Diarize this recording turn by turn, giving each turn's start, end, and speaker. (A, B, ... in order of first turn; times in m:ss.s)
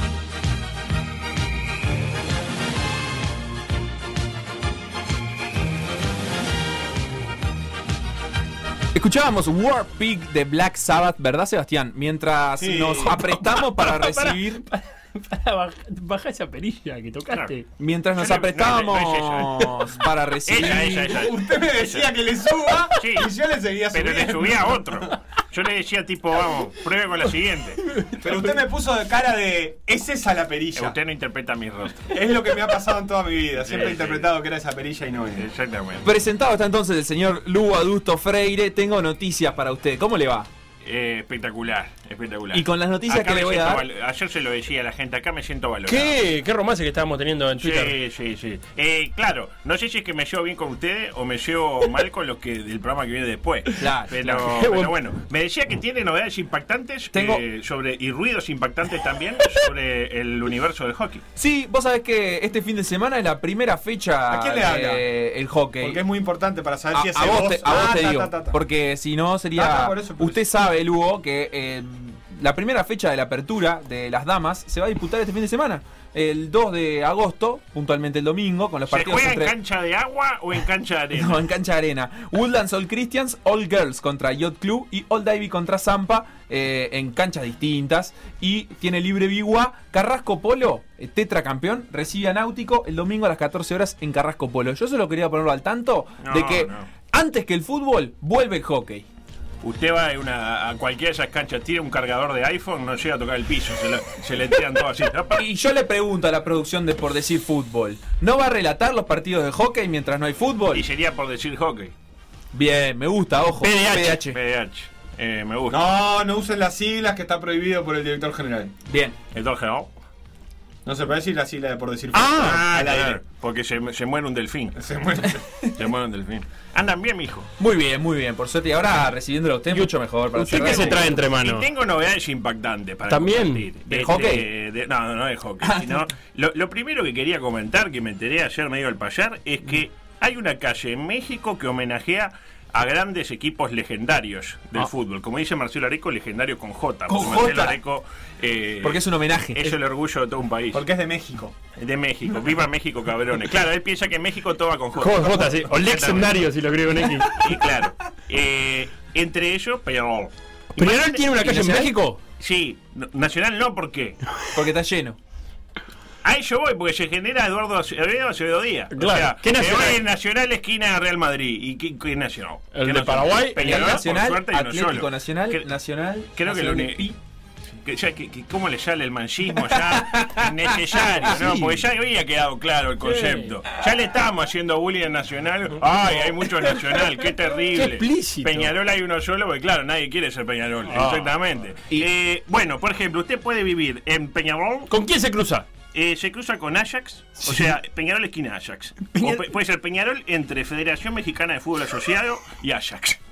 0:08.9-0:14.6 A
0:12.6-0:13.1 B
0:13.8-0:17.7 C
0:17.8-0:21.2 A
0:18.2-0:20.0 D
0:20.5-0:22.1 D
0:21.1-0:24.9 B
0:23.0-0:23.3 D
0:23.9-0:27.9 D
0:28.2-0:31.0 B
0:30.8-0:32.2 D
0:32.1-0:35.5 B
0:33.6-0:34.3 D
0:35.4-0:36.1 D
0:36.0-0:40.5 A
0:40.8-0:46.2 D
0:42.5-0:43.9 A
0:45.9-0:48.0 C
0:47.6-1:01.2 D
0:53.8-0:54.5 A
0:54.5-0:54.9 C
0:57.1-0:57.4 A
1:01.4-1:06.0 A
1:04.3-1:05.1 B
1:05.8-1:08.6 B
1:06.9-1:19.6 A
1:09.6-1:10.4 B
1:18.9-1:21.4 D
1:21.2-1:39.0 A
1:36.2-1:36.9 D
1:39.6-1:45.4 D
1:45.4-1:50.8 A
1:50.7-1:51.9 D
1:52.5-1:54.4 A
1:53.6-1:54.2 C
1:54.1-1:55.8 D
1:55.7-1:58.7 B
1:58.9-1:59.2 A
1:59.3-1:59.9 D
2:00.8-2:03.2 B
2:02.1-2:02.6 C
2:02.4-2:04.8 D
2:04.8-2:05.4 B
2:05.7-2:07.5 D
2:07.6-2:11.1 A
2:09.7-2:11.7 C
2:10.5-2:30.8 D
2:13.1-2:13.7 C
2:13.9-2:14.5 A
2:15.6-2:16.1 A
2:27.1-2:27.8 A
2:28.8-2:29.8 A
2:30.7-2:31.5 B
2:31.8-2:36.4 D
2:35.0-2:37.4 C
2:37.3-2:44.2 D
2:40.8-2:42.2 C
2:44.5-2:45.2 A
2:46.2-2:55.7 D
2:48.9-2:50.0 C
2:52.7-2:54.0 C
2:53.6-2:57.2 A
2:56.4-2:57.1 D
2:57.8-3:14.9 D
3:00.0-3:00.4 A
3:01.2-3:01.8 C
3:03.0-3:03.6 C
3:06.1-3:08.7 C
3:10.9-3:11.4 C
3:14.9-3:15.7 C
3:15.9-3:23.2 D